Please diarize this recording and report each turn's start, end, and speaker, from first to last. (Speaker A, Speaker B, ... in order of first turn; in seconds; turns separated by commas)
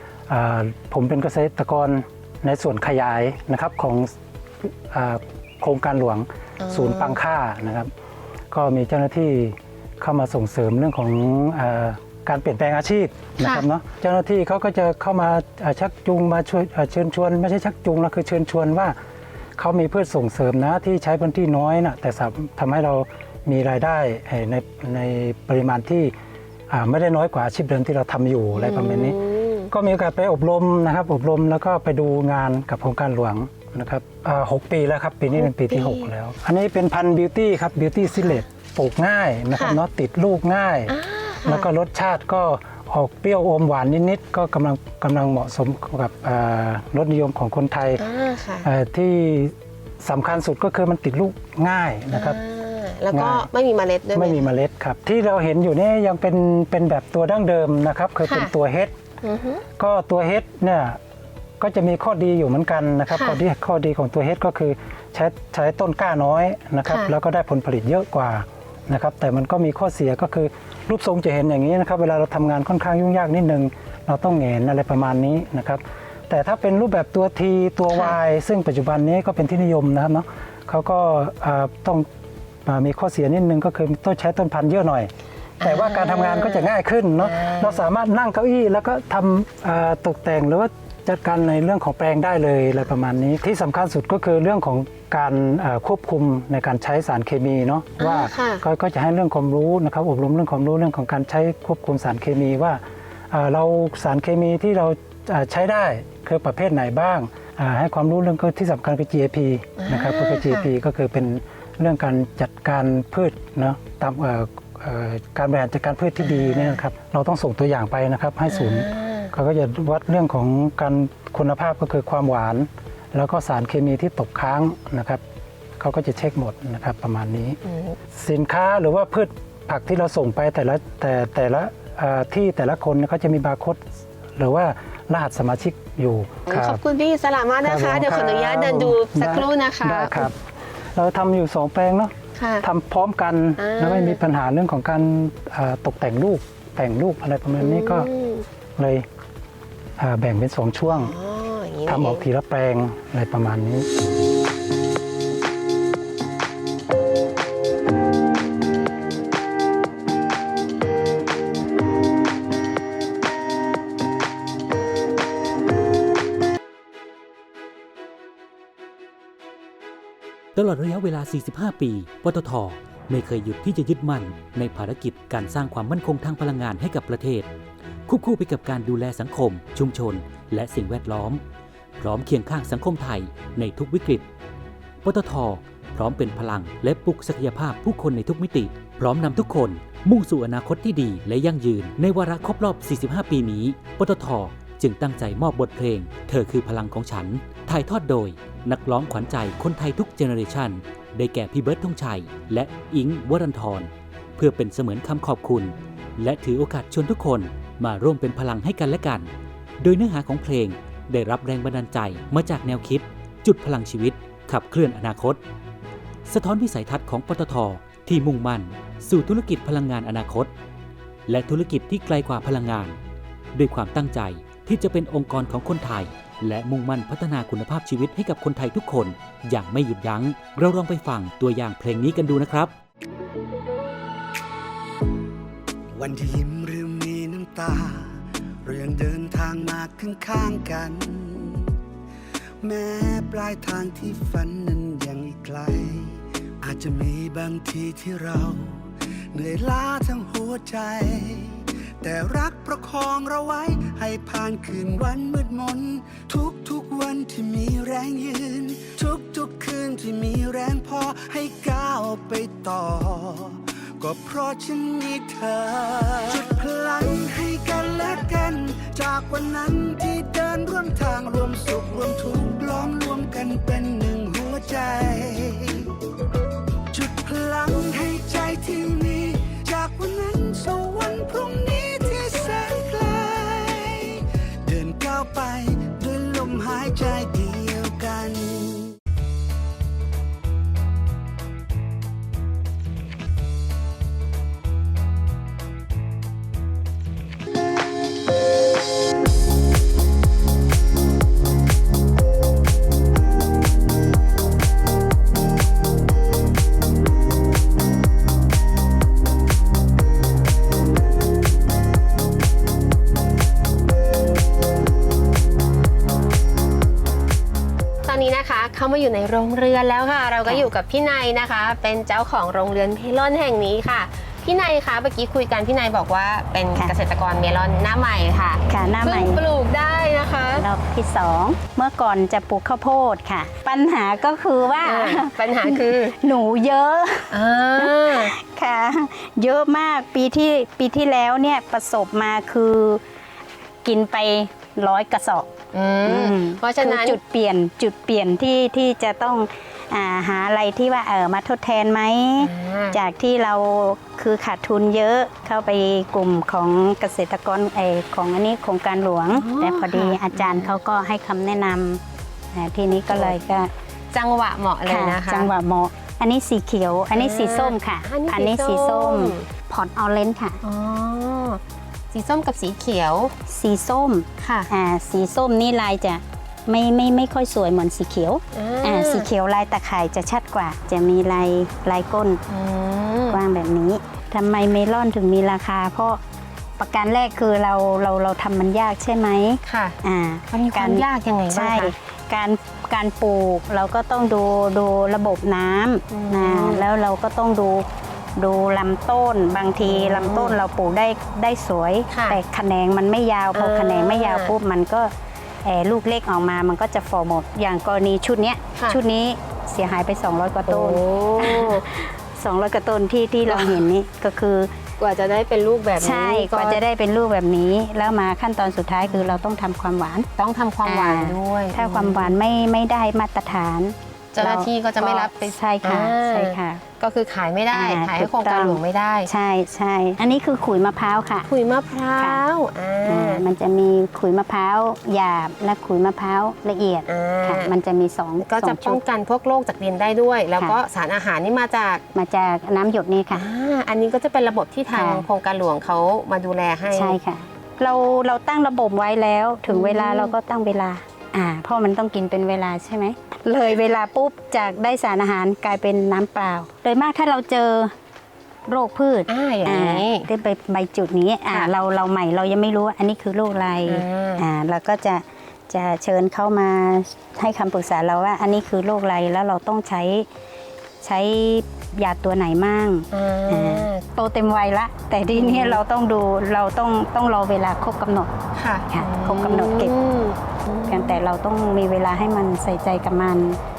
Speaker A: 0.3-4.1, Speaker A: 4.9-7.9, Speaker B: 6.6-7.2, Speaker A: 8.5-19.0, Speaker A: 19.6-26.1, Speaker A: 26.7-29.2, Speaker B: 28.5-29.7, Speaker A: 29.7-48.0, Speaker B: 35.4-36.1, Speaker B: 38.1-38.4, Speaker B: 39.5-39.8, Speaker B: 40.9-41.7, Speaker B: 48.0-48.7, Speaker A: 48.6-52.4, Speaker B: 52.1-54.4, Speaker A: 53.1-53.5, Speaker A: 54.1-58.9, Speaker B: 58.3-58.5, Speaker B: 59.2-59.6, Speaker A: 59.8-61.0, Speaker A: 61.6-82.1, Speaker B: 63.1-63.4, Speaker B: 66.9-67.1, Speaker B: 77.9-78.2, Speaker A: 82.7-125.2, Speaker B: 85.6-86.7, Speaker B: 87.2-87.8, Speaker B: 98.0-98.6, Speaker B: 109.8-110.7, Speaker B: 116.2-116.8, Speaker B: 118.5-119.3, Speaker A: 125.8-127.6, Speaker B: 127.7-128.0, Speaker A: 128.1-133.8, Speaker A: 134.4-136.8, Speaker B: 136.5-140.3, Speaker A: 137.6-140.4, Speaker A: 140.9-148.1, Speaker B: 142.4-142.6, Speaker B: 143.6-144.2, Speaker B: 147.6-148.4, Speaker A: 148.8-149.1, Speaker A: 150.0-151.2, Speaker B: 150.9-152.2, Speaker A: 151.9-153.9, Speaker C: 170.6-177.5, Speaker C: 178.1-181.4, Speaker C: 182.0-184.3, Speaker C: 185.0-215.4, Speaker C: 216.3-220.5, Speaker C: 221.3-223.0, Speaker C: 223.6-232.7, Speaker D: 235.9-241.7, Speaker D: 242.6-275.9, Speaker D: 276.9-288.9, Speaker B: 318.1-330.6, Speaker E: 328.7-329.4, Speaker E: 330.6-343.0, Speaker B: 334.8-336.2, Speaker B: 337.3-338.3, Speaker E: 343.8-345.5, Speaker B: 345.7-347.2, Speaker E: 346.1-362.0, Speaker B: 352.4-353.0, Speaker B: 359.3-360.7, Speaker E: 362.5-363.7, Speaker B: 363.1-363.4, Speaker B: 364.1-365.5, Speaker E: 364.9-370.6, Speaker B: 367.1-369.5, Speaker B: 370.6-371.6, Speaker B: 372.1-373.3, Speaker E: 373.5-382.4, Speaker B: 374.4-374.7, Speaker B: 378.5-379.3, Speaker B: 382.5-383.4, Speaker E: 383.3-386.2, Speaker E: 386.8-397.9, Speaker B: 389.6-390.0, Speaker B: 390.5-391.9, Speaker B: 396.1-396.9, Speaker E: 398.4-405.1, Speaker B: 399.8-400.6, Speaker B: 402.1-402.4, Speaker B: 403.5-404.5, Speaker E: 405.6-414.7, Speaker B: 410.7-411.8, Speaker B: 413.5-413.9, Speaker B: 415.0-416.8, Speaker E: 416.0-420.3, Speaker B: 419.1-419.3, Speaker B: 420.4-422.4, Speaker E: 420.9-426.8, Speaker B: 424.3-429.3, Speaker E: 427.7-431.5, Speaker B: 431.5-433.4, Speaker E: 432.2-432.4, Speaker E: 433.1-439.0, Speaker B: 437.1-437.7, Speaker B: 438.4-442.0, Speaker E: 442.1-443.5, Speaker B: 443.3-447.2, Speaker E: 444.9-445.3, Speaker E: 446.9-457.9, Speaker B: 449.7-450.3, Speaker E: 458.7-470.3, Speaker B: 459.3-460.3, Speaker B: 463.9-464.5, Speaker E: 471.0-478.3, Speaker B: 473.1-474.0, Speaker B: 475.3-475.8, Speaker B: 478.6-481.2, Speaker E: 478.9-479.9, Speaker E: 480.9-483.6